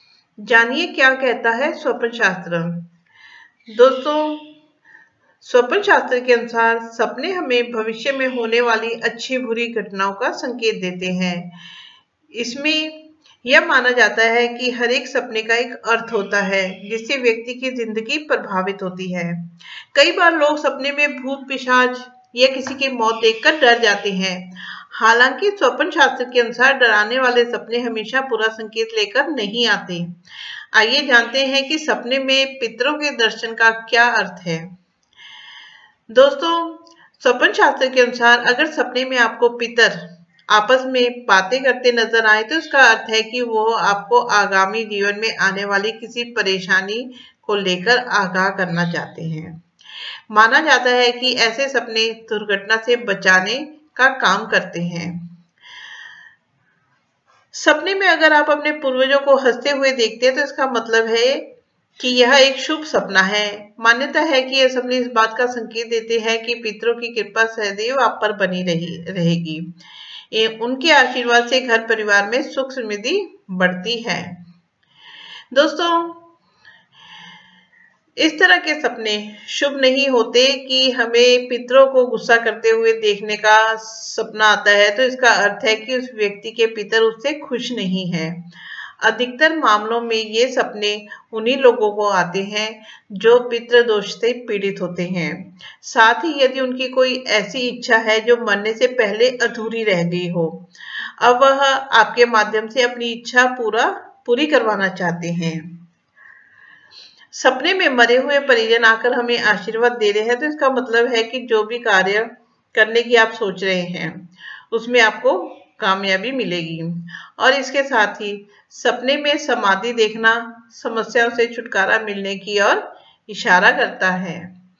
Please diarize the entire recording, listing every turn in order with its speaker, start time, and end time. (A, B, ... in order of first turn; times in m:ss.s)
0:00.4-0:02.8 A
0:03.7-0:04.6 A
0:05.4-0:11.5 A
0:12.3-0:30.2 A
0:30.7-0:34.7 A
0:36.1-0:49.6 A
0:50.3-0:55.3 A
0:57.5-1:09.7 A
1:10.3-1:14.4 A
1:15.5-1:16.3 A
1:18.2-1:28.5 A
1:29.0-1:40.7 A
1:41.2-1:45.8 A
1:47.3-2:04.5 A